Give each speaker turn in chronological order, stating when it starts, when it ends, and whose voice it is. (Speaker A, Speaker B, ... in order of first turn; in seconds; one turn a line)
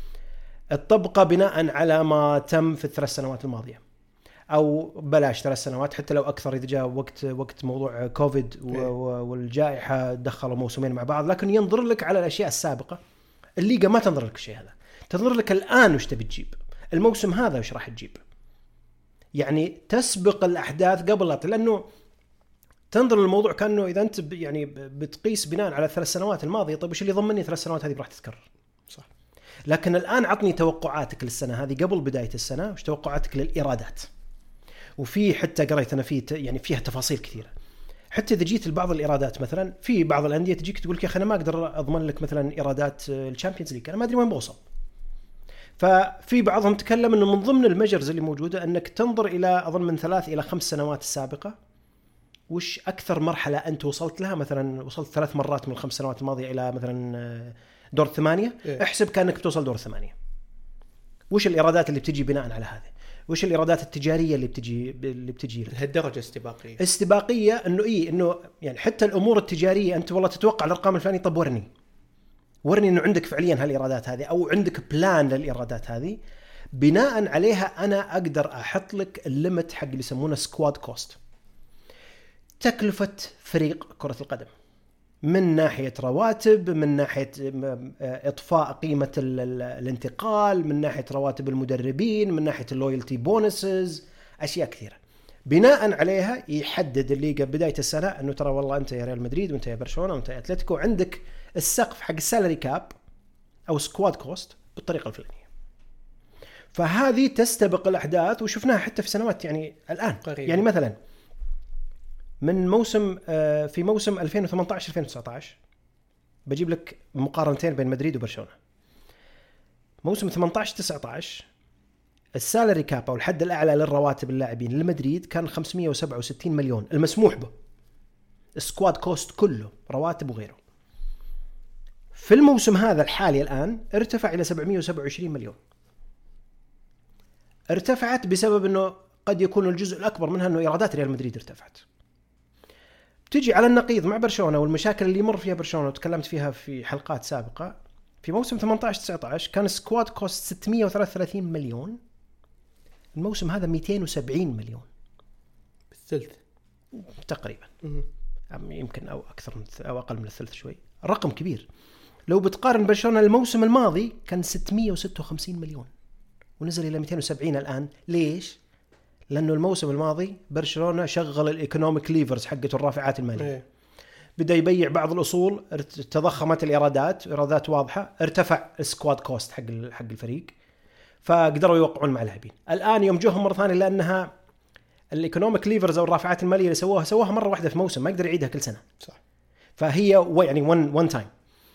Speaker A: 0.7-3.8
Speaker A: 4.5-13.0
Speaker A: 13.6-18.2
Speaker A: 19.4-21.8
Speaker A: 22.9-28.4
Speaker A: 29.7-34.1
Speaker A: 35.0-37.5
Speaker A: 38.1-44.6
Speaker A: 45.8-51.5
Speaker A: 52.5-60.1
Speaker A: 61.3-65.8
Speaker B: 65.7-66.8
Speaker A: 66.8-71.7
Speaker A: 72.6-76.2
Speaker A: 76.7-81.2
Speaker A: 82.6-84.5
Speaker A: 85.2-102.9
Speaker A: 103.7-105.5
Speaker A: 106.7-111.0
Speaker B: 110.2-110.6
Speaker A: 112.4-115.6
Speaker A: 116.5-118.5
Speaker A: 120.0-121.5
Speaker A: 122.3-127.5
Speaker A: 128.6-130.6
Speaker A: 132.1-135.6
Speaker A: 137.7-141.8
Speaker A: 143.3-152.0
Speaker A: 153.2-154.8
Speaker B: 155.9-156.4
Speaker A: 157.0-157.7
Speaker A: 158.5-161.7
Speaker A: 162.3-165.9
Speaker A: 166.6-168.6
Speaker A: 169.3-173.6
Speaker B: 173.4-173.6
Speaker A: 174.4-180.5
Speaker A: 181.2-184.3
Speaker A: 185.1-188.8
Speaker A: 189.8-191.3